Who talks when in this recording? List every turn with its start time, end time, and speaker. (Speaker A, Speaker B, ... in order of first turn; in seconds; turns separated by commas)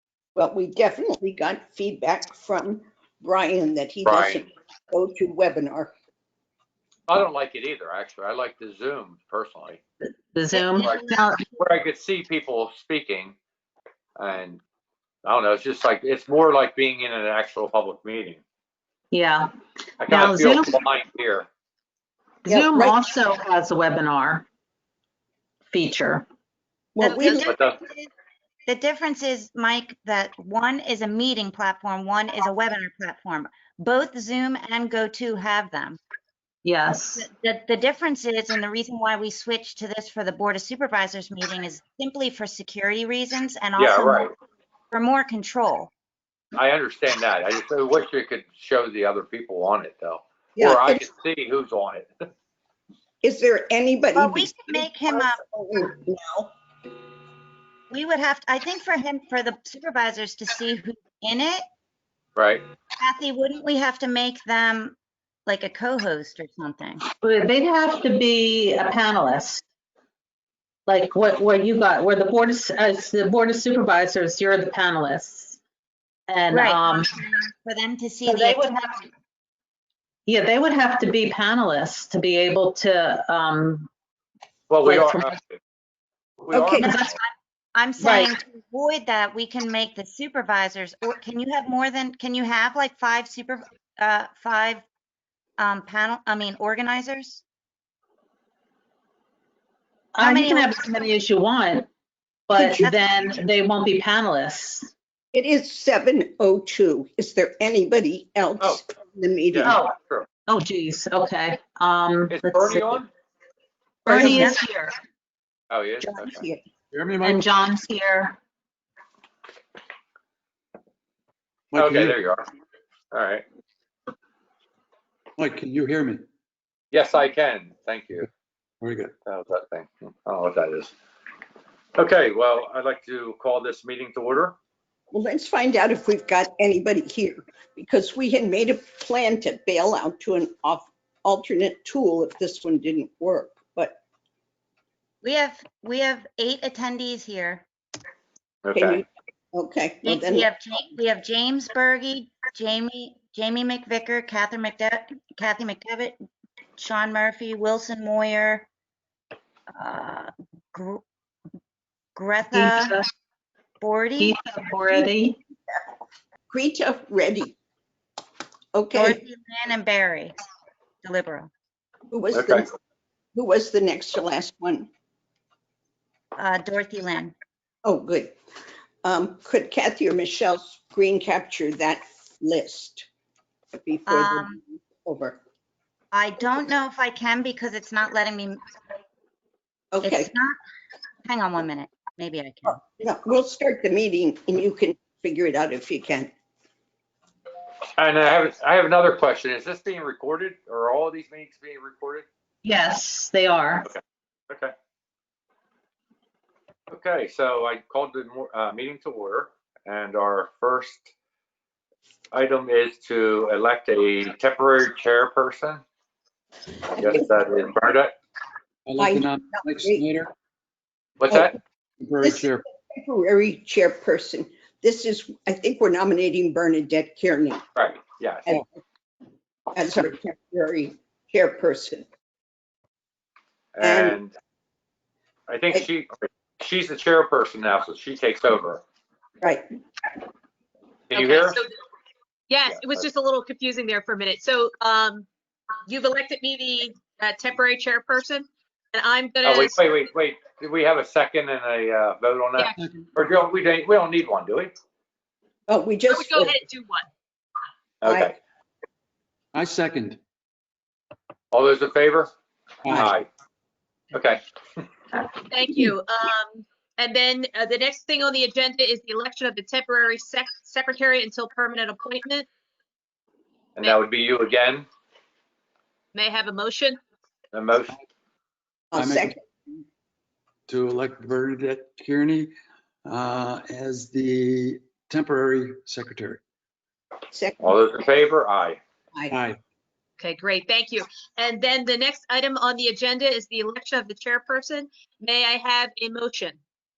Speaker A: 0.3-5.9, Speaker B: 4.0-4.5, Speaker B: 7.1-9.8, Speaker C: 10.0-11.4, Speaker D: 10.5-11.5, Speaker B: 10.8-13.3, Speaker B: 14.2-14.6, Speaker B: 15.2-18.4, Speaker C: 19.1-19.5, Speaker B: 20.0-21.5, Speaker C: 20.1-20.7, Speaker C: 22.4-24.5, Speaker A: 22.5-23.0, Speaker C: 25.7-26.3, Speaker A: 26.9-27.5, Speaker D: 27.0-28.1, Speaker B: 27.4-27.8, Speaker D: 28.7-36.0, Speaker C: 36.6-37.3, Speaker D: 37.2-44.3, Speaker B: 43.8-44.3, Speaker D: 44.9-45.9, Speaker B: 46.5-52.2, Speaker A: 50.5-51.1, Speaker A: 53.2-56.5, Speaker D: 54.2-55.4, Speaker D: 57.9-61.6, Speaker B: 62.4-62.6, Speaker D: 63.0-67.0, Speaker C: 67.2-69.6, Speaker C: 70.9-75.6, Speaker C: 76.3-77.1, Speaker D: 76.5-78.7, Speaker C: 78.3-79.0, Speaker C: 80.3-83.9, Speaker B: 84.7-85.6, Speaker C: 84.8-85.4, Speaker B: 86.4-87.0, Speaker A: 86.5-86.9, Speaker D: 86.8-94.8, Speaker C: 86.8-87.1, Speaker C: 88.0-88.3, Speaker D: 95.6-97.4, Speaker C: 100.1-101.9, Speaker D: 100.2-100.7, Speaker C: 102.5-104.9, Speaker D: 102.6-103.2, Speaker A: 105.3-109.8, Speaker B: 109.5-110.3, Speaker C: 109.7-110.0, Speaker C: 110.5-113.0, Speaker B: 112.3-113.1, Speaker C: 114.0-114.9, Speaker D: 114.1-114.6, Speaker A: 114.1-114.5, Speaker B: 115.7-116.4, Speaker A: 116.0-116.7, Speaker E: 116.9-117.5, Speaker C: 117.2-118.4, Speaker E: 121.7-122.2, Speaker B: 121.8-122.5, Speaker B: 123.1-123.5, Speaker E: 125.4-126.3, Speaker B: 126.9-128.3, Speaker E: 128.8-129.1, Speaker B: 129.2-130.9, Speaker B: 132.0-134.6, Speaker A: 135.1-144.0, Speaker D: 145.2-147.7, Speaker B: 148.6-149.0, Speaker A: 148.7-150.5, Speaker D: 150.0-156.2, Speaker D: 156.8-158.7, Speaker D: 159.8-161.0, Speaker D: 162.2-163.0, Speaker C: 162.5-163.1, Speaker D: 163.8-164.4, Speaker C: 164.2-165.4, Speaker A: 166.5-167.6, Speaker A: 168.7-169.2, Speaker D: 168.9-170.3, Speaker D: 171.0-171.5, Speaker A: 172.1-172.7, Speaker B: 172.3-172.6, Speaker A: 173.3-174.9, Speaker D: 176.4-177.3, Speaker A: 177.8-178.4, Speaker A: 179.0-183.1, Speaker A: 183.7-185.4, Speaker D: 184.1-184.6, Speaker D: 186.1-188.6, Speaker A: 189.9-190.3, Speaker D: 190.0-190.6, Speaker D: 191.3-192.8, Speaker A: 192.7-196.3, Speaker B: 198.0-202.2, Speaker C: 202.6-203.9, Speaker B: 203.9-204.7, Speaker B: 206.9-211.1, Speaker B: 212.3-215.8, Speaker B: 217.0-218.1, Speaker A: 217.0-217.3, Speaker E: 218.9-220.3, Speaker A: 219.0-220.0, Speaker B: 221.2-221.6, Speaker A: 221.3-221.5, Speaker E: 222.0-222.6, Speaker A: 222.2-227.7, Speaker B: 227.8-228.6, Speaker A: 229.7-232.1, Speaker B: 233.8-234.3, Speaker A: 233.8-234.2, Speaker B: 235.5-238.8, Speaker A: 239.4-239.7, Speaker B: 241.1-241.6, Speaker F: 241.1-241.7, Speaker F: 242.5-245.3, Speaker B: 242.7-243.0, Speaker F: 245.9-250.0, Speaker B: 249.4-254.7, Speaker E: 252.8-253.1, Speaker A: 255.7-256.6, Speaker F: 256.1-257.1, Speaker B: 258.0-258.4, Speaker A: 258.0-258.4, Speaker E: 259.5-260.2, Speaker B: 261.5-262.3, Speaker E: 262.8-263.1, Speaker B: 262.9-263.3, Speaker B: 264.1-264.8, Speaker F: 265.4-272.5, Speaker B: 273.8-274.9, Speaker F: 276.1-277.0, Speaker B: 277.5-277.9, Speaker A: 278.9-279.8, Speaker E: 278.9-279.4, Speaker E: 280.7-282.5, Speaker E: 283.1-286.4, Speaker A: 287.3-287.8, Speaker B: 287.6-288.8, Speaker E: 289.3-289.6, Speaker F: 290.2-296.6